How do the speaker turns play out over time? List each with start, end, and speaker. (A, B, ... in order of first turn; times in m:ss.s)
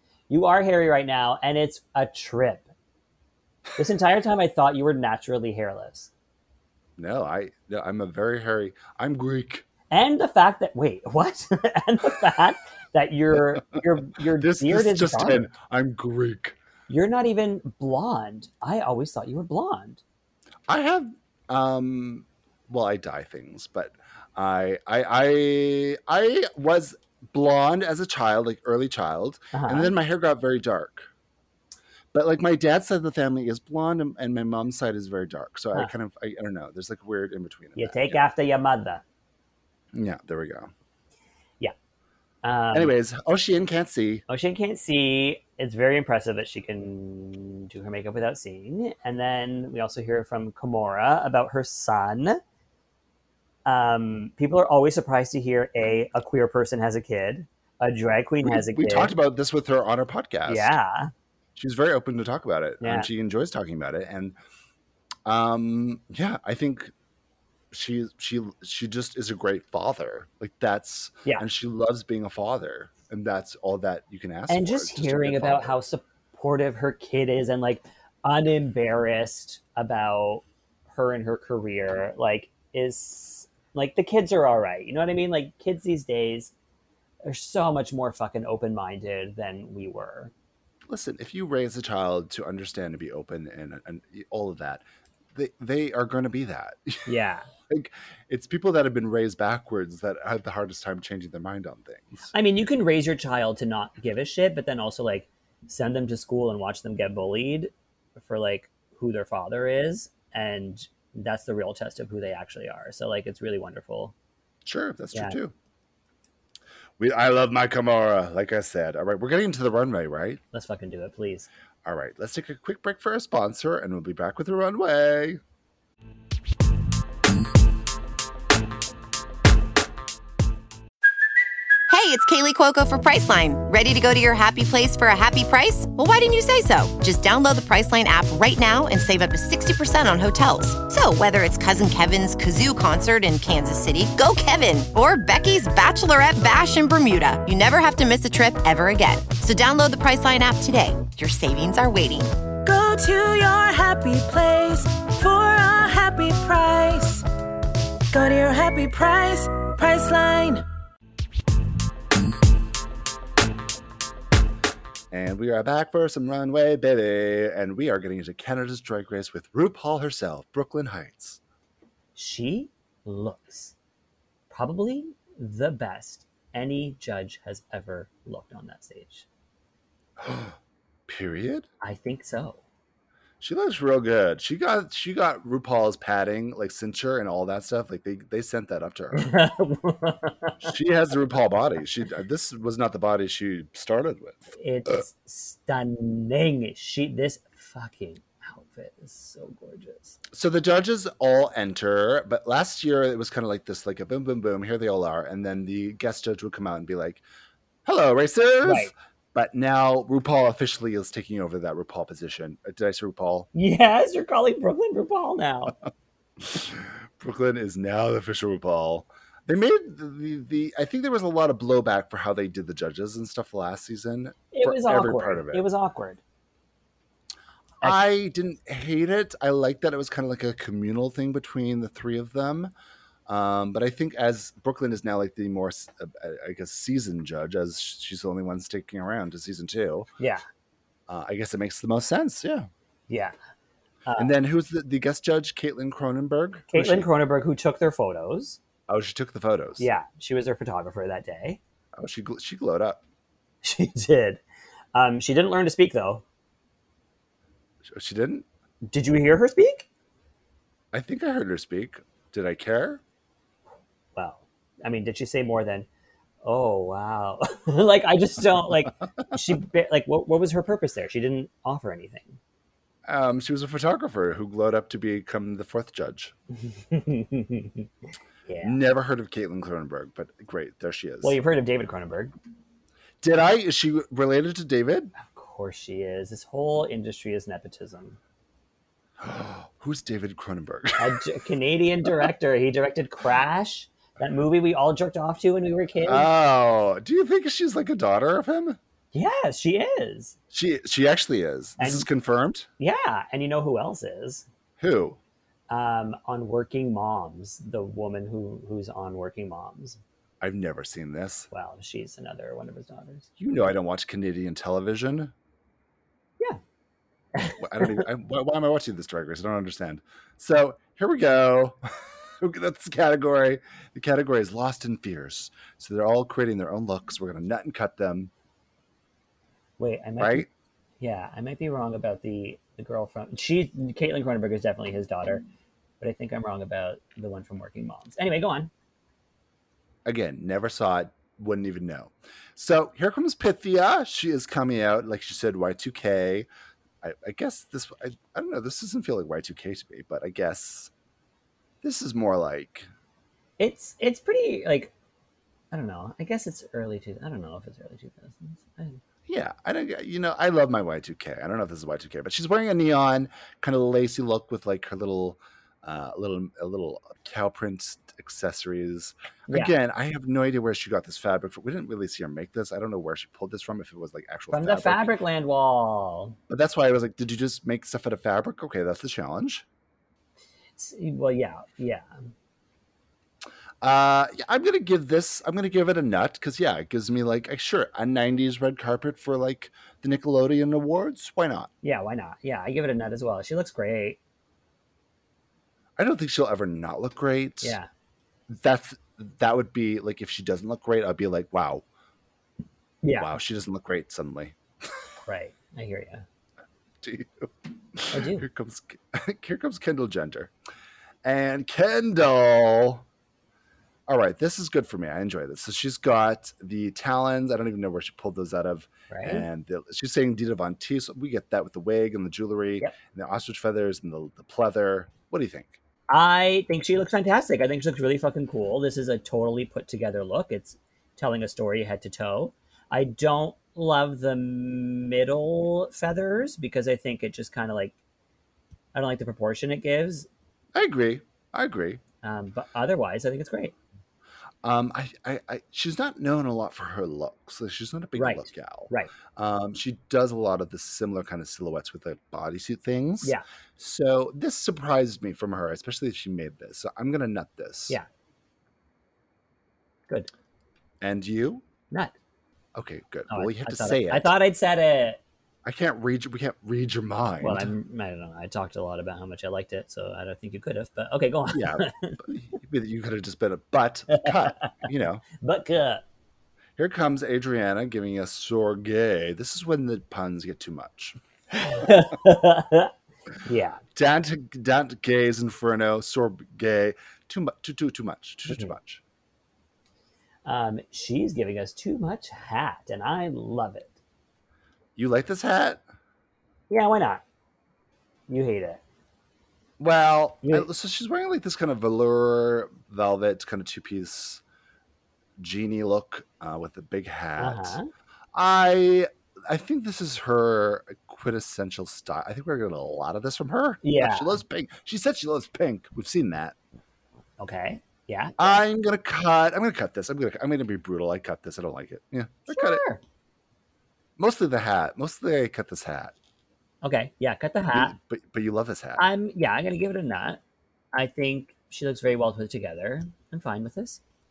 0:00.3-0:02.7 A
0:03.8-0:06.1 A
0:07.0-0:09.6 B
0:09.9-0:15.5 A
0:14.3-0:16.6 B
0:16.9-0:20.0 A
0:20.7-0:31.1 B
0:29.5-0:29.9 A
0:32.1-0:38.2 B
0:37.8-0:39.0 A
0:39.9-0:40.7 B
0:42.4-0:42.9 A
0:42.7-0:44.2 B
0:44.3-0:52.4 A
0:53.6-0:59.1 A
0:58.4-1:00.7 B
1:00.5-1:01.1 A
1:01.6-1:04.4 B
1:02.8-1:03.1 A
1:05.2-1:06.9 B
1:07.7-1:15.8 B
1:14.5-1:26.5 A
1:27.2-1:30.3 A
1:30.9-1:37.1 B
1:37.0-1:37.5 A
1:37.7-1:42.3 B
1:42.3-1:54.1 A
1:54.6-1:55.5 B
1:57.0-2:00.4 B
2:00.5-2:01.5 A
2:01.8-2:05.4 B
2:11.9-2:32.4 C
2:32.6-2:37.2 D
2:38.1-2:40.6 D
2:45.1-2:51.4 B
2:52.1-2:53.7 A
2:54.5-2:59.2 A
3:00.2-3:00.6 B
3:01.1-3:01.7 B
3:01.8-3:02.6 A
3:03.4-3:09.3 B
3:09.1-3:10.7 A
3:10.6-3:14.5 B
3:14.5-3:20.2 A
3:20.3-3:27.2 B
3:27.8-3:33.5 B
3:28.6-3:28.9 A
3:33.5-3:35.7 A
3:36.4-3:45.6 B
3:44.5-3:46.2 A
3:47.8-3:52.7 B
3:53.3-4:00.1 B
4:00.2-4:00.4 A
4:01.1-4:02.7 B
4:03.1-4:03.3 A
4:04.0-4:04.3 A
4:04.2-4:07.1 B
4:06.7-4:08.6 A
4:08.9-4:09.8 B
4:09.8-4:11.6 A
4:12.0-4:13.0 B
4:13.6-4:14.4 A
4:14.9-4:16.2 A
4:17.8-4:18.4 B
4:18.9-4:19.9 A
4:20.9-4:23.0 B
4:24.1-4:25.9 A
4:26.4-4:32.4 A
4:33.0-4:36.3 B
4:36.7-4:37.9 A
4:38.5-4:38.8 A
4:38.6-4:41.4 B
4:41.2-4:42.3 A
4:43.2-4:45.1 B
4:45.2-4:48.2 A
4:49.2-4:51.2 B
4:51.0-4:56.3 A
4:56.0-4:58.8 B
4:59.1-5:00.3 A
5:00.5-5:02.7 B
5:01.8-5:02.1 A
5:02.8-5:04.4 A
5:04.8-5:05.2 B
5:05.7-5:10.0 A
5:10.4-5:11.5 B
5:11.5-5:13.3 A
5:13.4-5:15.3 B
5:17.4-5:18.0 A
5:17.6-5:21.8 B
5:22.4-5:28.3 B
5:29.8-5:30.5 A
5:30.2-5:30.5 B
5:31.0-5:35.4 A
5:36.0-5:38.7 A
5:40.0-5:46.5 B
5:47.0-5:50.9 B
5:51.8-5:52.9 B
5:53.6-5:54.9 A
5:55.7-5:59.0 A
5:59.3-6:15.2 B
6:14.5-6:16.4 A
6:16.5-6:19.6 B
6:20.8-6:22.2 A
6:23.8-6:31.7 B
6:31.8-6:34.2 A
6:36.0-6:37.8 B
6:37.6-6:37.9 A
6:38.5-6:41.8 B
6:43.0-6:43.3 A
6:43.2-6:44.6 B
6:45.2-6:46.2 A
6:47.0-6:50.5 B
6:48.1-6:48.4 A
6:51.2-6:53.0 B
6:54.1-7:05.8 B
6:59.1-6:59.4 A
7:06.1-7:17.9 A
7:18.9-7:20.3 A
7:20.7-7:22.0 B
7:22.2-7:23.7 A
7:24.6-7:38.0 B
7:28.2-7:29.1 A
7:41.0-7:41.6 B
7:42.7-7:44.3 B
7:43.3-7:45.2 A
7:45.6-7:47.7 B
7:47.4-7:52.2 A
7:51.5-7:55.2 B
7:54.1-7:54.7 A
7:55.4-7:56.0 A
7:56.8-8:01.9 B
8:01.6-8:02.9 A
8:03.4-8:03.8 A
8:03.9-8:09.0 B
8:08.5-8:08.8 A
8:10.4-8:13.9 A
8:15.0-8:15.8 B
8:16.7-8:17.2 A
8:18.3-8:18.8 A
8:19.8-8:24.4 B
8:25.4-8:27.8 B
8:27.4-8:27.9 A
8:28.3-8:36.5 B
8:33.8-8:34.4 A
8:37.4-8:38.5 A
8:38.4-8:42.8 B
8:42.5-8:43.0 A
8:44.2-8:46.1 B
8:46.8-8:47.9 A
8:47.7-8:49.0 B
8:49.0-8:50.4 A
8:50.9-8:54.0 A